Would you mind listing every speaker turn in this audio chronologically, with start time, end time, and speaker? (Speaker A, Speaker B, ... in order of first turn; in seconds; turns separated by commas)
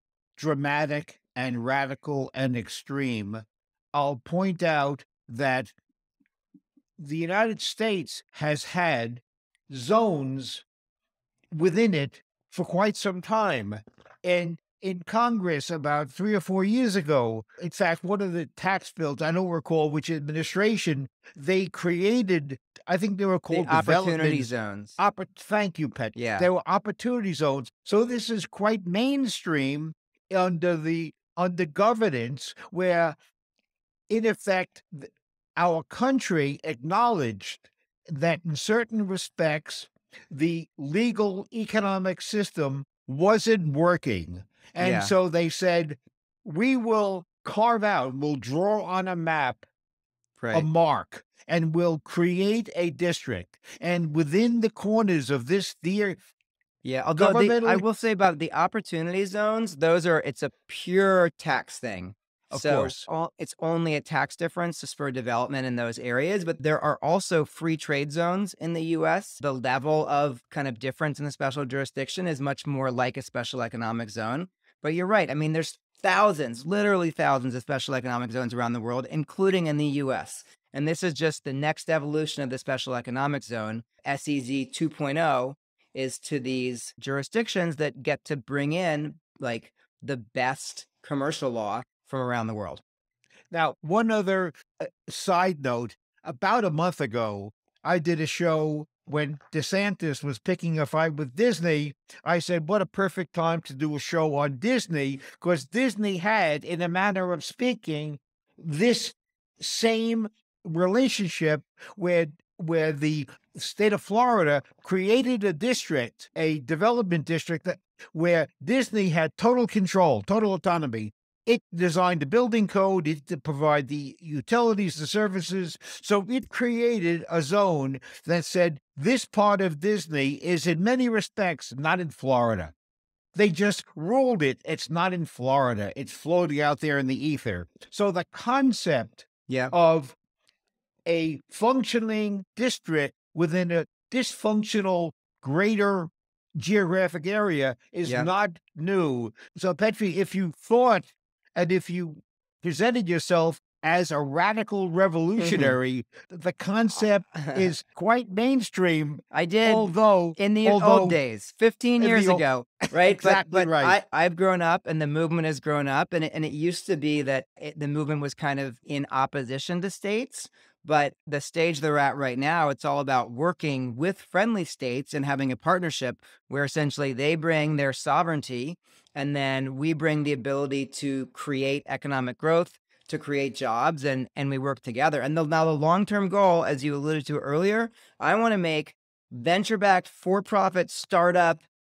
Speaker A: 0.4-5.8, Speaker A: 7.0-10.7, Speaker A: 11.5-33.2, Speaker B: 23.5-25.0, Speaker B: 26.1-26.5, Speaker A: 34.1-49.6, Speaker B: 44.8-45.1, Speaker B: 50.4-50.7, Speaker A: 50.5-56.2, Speaker B: 56.8-92.8, Speaker A: 57.2-57.8, Speaker A: 62.5-63.1, Speaker A: 93.5-132.7, Speaker A: 133.3-140.2, Speaker B: 139.5-139.7, Speaker A: 141.1-161.2, Speaker B: 155.4-155.8, Speaker B: 159.3-191.6, Speaker A: 162.0-162.4, Speaker A: 163.1-164.0